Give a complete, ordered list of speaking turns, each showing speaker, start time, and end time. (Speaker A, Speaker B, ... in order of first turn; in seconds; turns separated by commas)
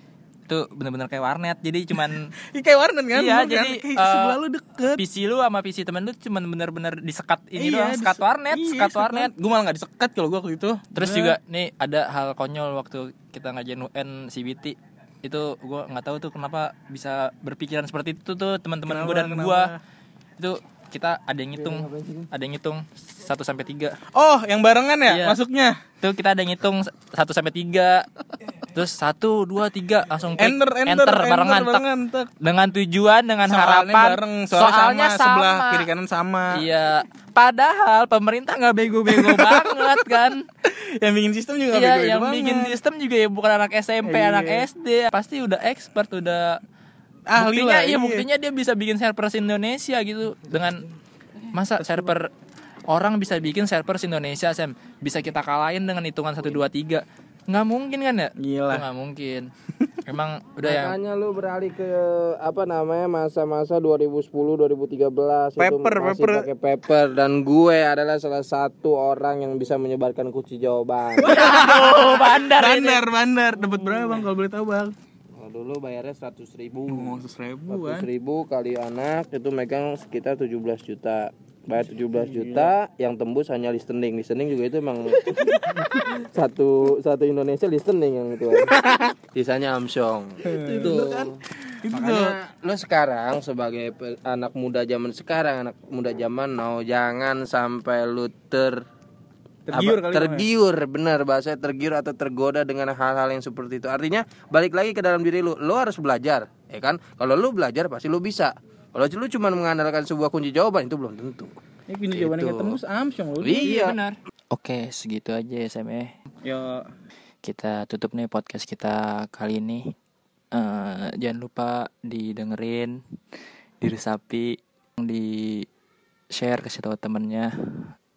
Speaker A: 0.5-2.3, Speaker B: 1.9-5.0, Speaker A: 3.1-4.4, Speaker A: 4.9-9.3, Speaker B: 7.6-11.4, Speaker A: 10.9-19.7, Speaker B: 18.9-19.8, Speaker A: 20.4-24.0, Speaker C: 21.7-22.2, Speaker B: 24.1-25.8, Speaker A: 25.1-25.4, Speaker A: 26.0-28.1, Speaker A: 28.6-31.8, Speaker B: 30.4-32.3, Speaker A: 32.4-35.9, Speaker B: 33.5-36.6, Speaker A: 36.5-40.5, Speaker B: 39.1-42.8, Speaker A: 41.7-46.6, Speaker B: 44.0-44.7, Speaker B: 47.3-48.3, Speaker A: 47.4-50.8, Speaker A: 51.5-52.3, Speaker B: 51.8-52.1, Speaker A: 52.9-59.5, Speaker B: 58.4-58.9, Speaker A: 60.0-61.0, Speaker C: 60.6-71.4, Speaker B: 65.6-66.5, Speaker A: 71.2-73.0, Speaker B: 71.2-74.9, Speaker C: 75.4-91.4, Speaker B: 76.9-78.1, Speaker B: 82.2-82.7, Speaker B: 85.3-85.7, Speaker B: 90.4-92.4, Speaker C: 91.9-98.8, Speaker B: 99.7-100.5, Speaker C: 99.7-111.5, Speaker B: 111.9-113.9, Speaker C: 112.1-112.8, Speaker C: 113.4-114.0, Speaker A: 113.5-116.2, Speaker B: 116.4-116.8, Speaker A: 117.4-119.9, Speaker A: 120.5-123.0, Speaker A: 123.8-125.7, Speaker A: 126.3-127.9